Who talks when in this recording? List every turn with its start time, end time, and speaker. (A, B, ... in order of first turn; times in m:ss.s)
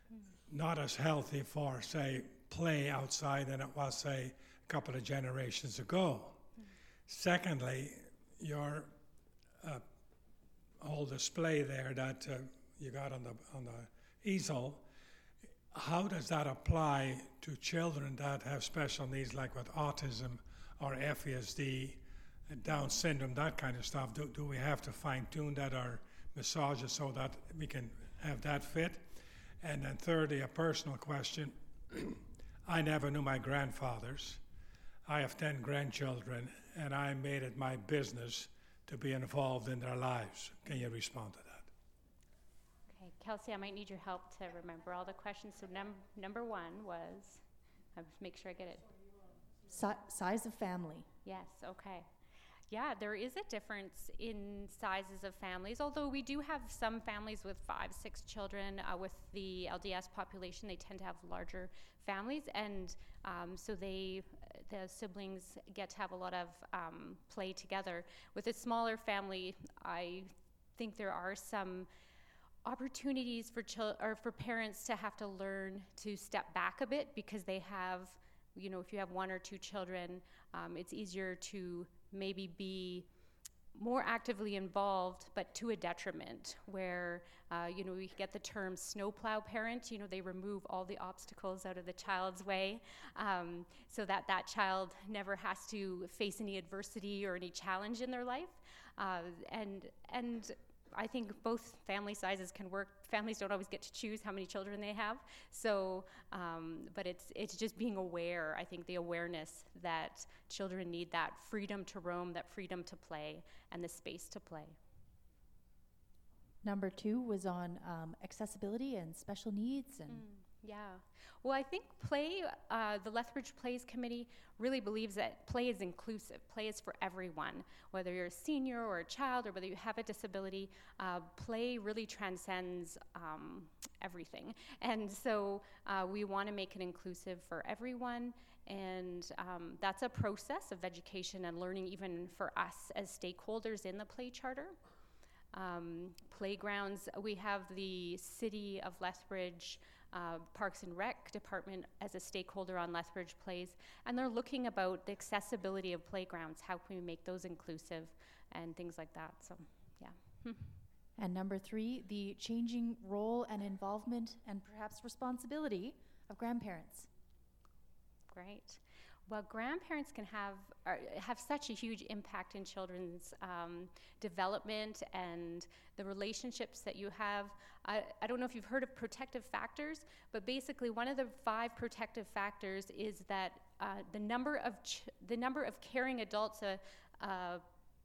0:00.5-0:06.4 A
0:07.1-0:08.9 A
0:10.8-0:14.8 A
0:15.7-0:34.4 A
0:35.1-0:41.7 A
0:42.9-0:47.4 B
0:48.0-0:48.9 B
0:49.7-0:51.1 C
0:51.2-0:52.1 B
0:52.7-1:11.9 B
1:12.6-1:23.1 B
1:23.7-1:54.8 B
1:56.6-2:00.2 C
2:00.1-2:24.8 B
2:25.5-2:40.8 B
2:41.2-2:47.1 C
2:48.3-3:07.6 B